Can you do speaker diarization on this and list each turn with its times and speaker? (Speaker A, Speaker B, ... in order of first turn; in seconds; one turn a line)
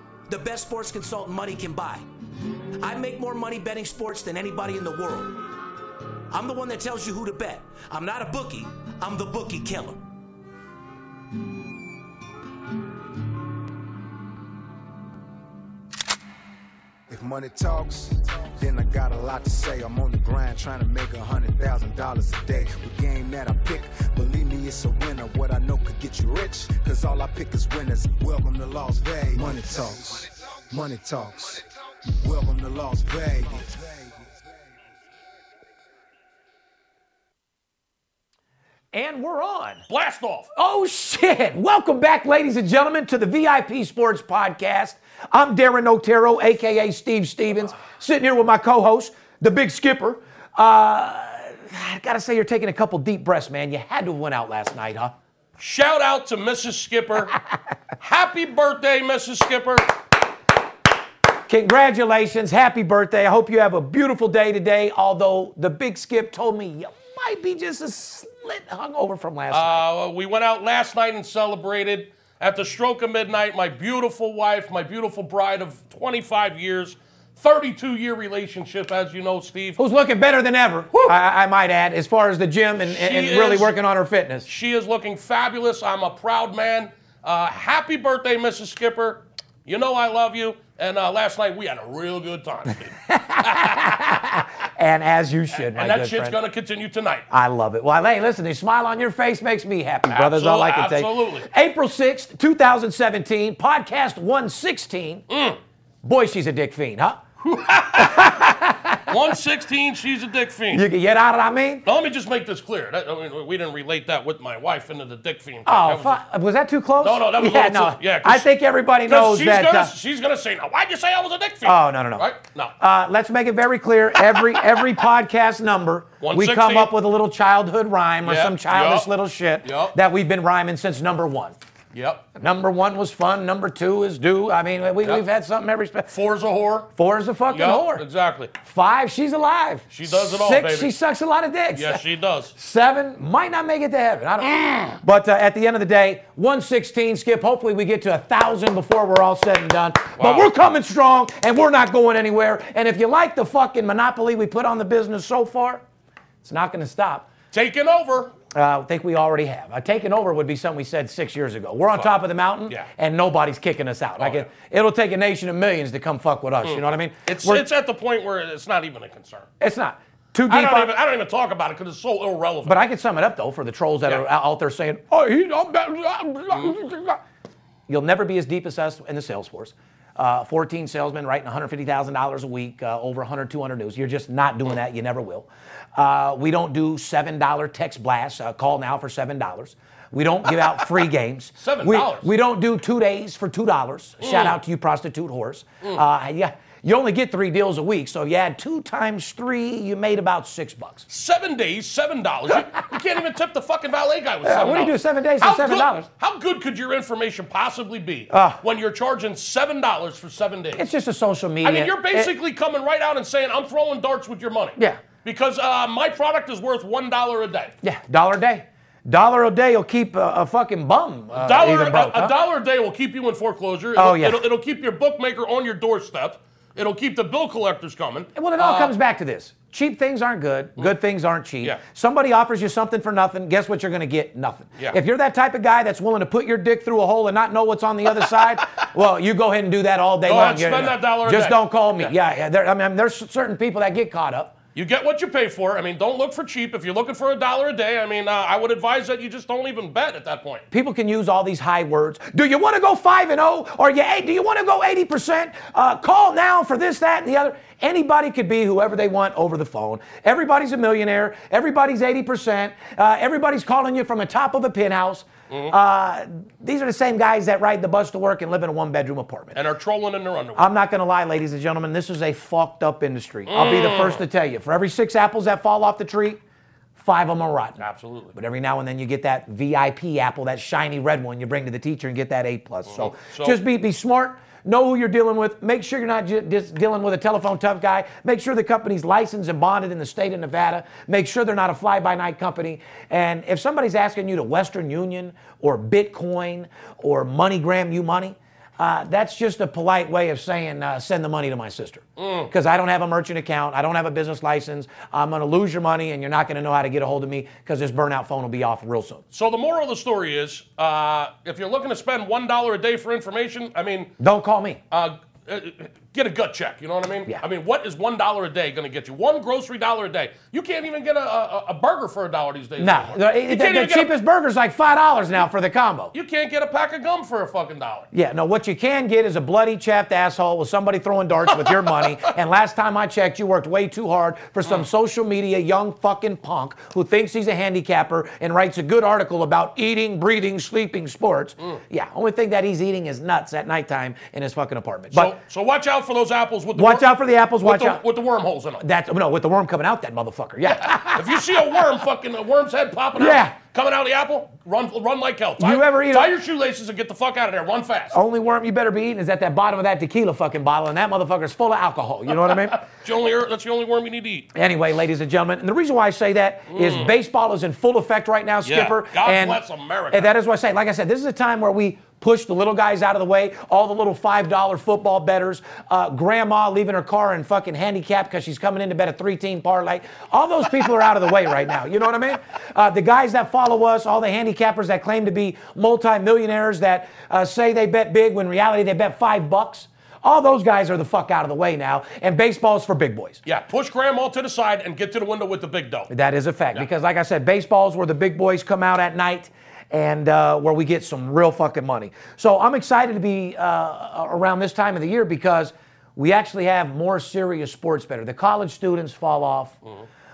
Speaker A: 0.3-2.0
Speaker A: 2.8-5.3
Speaker A: 6.3-10.0
Speaker B: 17.1-31.6
Speaker B: 32.2-34.1
Speaker C: 38.9-39.8
Speaker D: 39.9-40.5
Speaker C: 40.5-55.1
Speaker D: 55.6-57.4
Speaker D: 58.0-59.9
Speaker C: 61.5-69.8
Speaker D: 69.5-79.8
Speaker C: 79.8-84.5
Speaker D: 82.9-83.7
Speaker D: 84.5-93.9
Speaker C: 93.1-96.4
Speaker D: 95.5-97.2
Speaker C: 97.3-105.2
Speaker D: 100.1-101.5
Speaker D: 105.3-105.6
Speaker C: 106.0-107.2
Speaker D: 107.4-108.5
Speaker C: 108.0-109.0
Speaker D: 109.0-110.8
Speaker C: 110.7-111.8
Speaker D: 111.8-116.2
Speaker C: 115.7-119.9
Speaker D: 117.0-118.5
Speaker D: 119.0-122.7
Speaker C: 121.6-131.6
Speaker D: 124.2-124.9
Speaker D: 126.2-126.9
Speaker D: 128.2-129.1
Speaker D: 129.6-129.9
Speaker D: 131.9-132.2
Speaker C: 132.4-136.1
Speaker D: 136.1-136.9
Speaker C: 136.9-138.1
Speaker D: 137.5-138.5
Speaker C: 138.6-142.0
Speaker D: 139.9-140.9
Speaker D: 141.8-142.5
Speaker C: 142.6-155.8
Speaker D: 150.2-150.5
Speaker C: 156.4-157.3
Speaker D: 157.5-158.3
Speaker C: 158.5-167.6
Speaker D: 164.2-164.5
Speaker D: 166.6-169.5
Speaker C: 169.6-170.9
Speaker D: 170.5-172.8
Speaker C: 172.6-177.2
Speaker C: 177.9-201.1
Speaker D: 191.6-192.3
Speaker D: 194.2-194.6
Speaker D: 201.1-210.8
Speaker C: 204.4-206.1
Speaker C: 208.3-208.6
Speaker C: 210.8-212.3
Speaker D: 211.6-217.7
Speaker C: 217.8-222.4
Speaker D: 221.3-228.9
Speaker C: 223.9-224.5
Speaker C: 228.3-244.5
Speaker D: 238.2-238.7
Speaker D: 240.2-242.1
Speaker D: 244.8-250.6
Speaker C: 250.7-269.6
Speaker D: 265.5-265.8
Speaker D: 269.5-270.7
Speaker C: 270.6-276.4
Speaker D: 273.5-274.2
Speaker C: 277.0-277.8
Speaker D: 277.8-278.3
Speaker C: 278.3-309.2
Speaker D: 282.9-283.6
Speaker D: 302.2-302.5
Speaker D: 309.3-314.1
Speaker C: 314.2-314.8
Speaker D: 314.9-324.1
Speaker C: 322.8-326.1
Speaker D: 326.1-328.1
Speaker C: 328.1-345.3
Speaker D: 331.6-332.0
Speaker D: 345.1-347.1
Speaker C: 346.8-348.0
Speaker D: 347.6-348.8
Speaker C: 348.8-351.8
Speaker D: 350.8-358.2
Speaker C: 353.1-353.5
Speaker C: 355.6-356.3
Speaker C: 358.1-362.8
Speaker D: 362.5-364.5
Speaker C: 364.5-393.4
Speaker D: 366.7-367.1
Speaker D: 368.6-370.3
Speaker D: 393.4-396.1
Speaker C: 396.1-409.8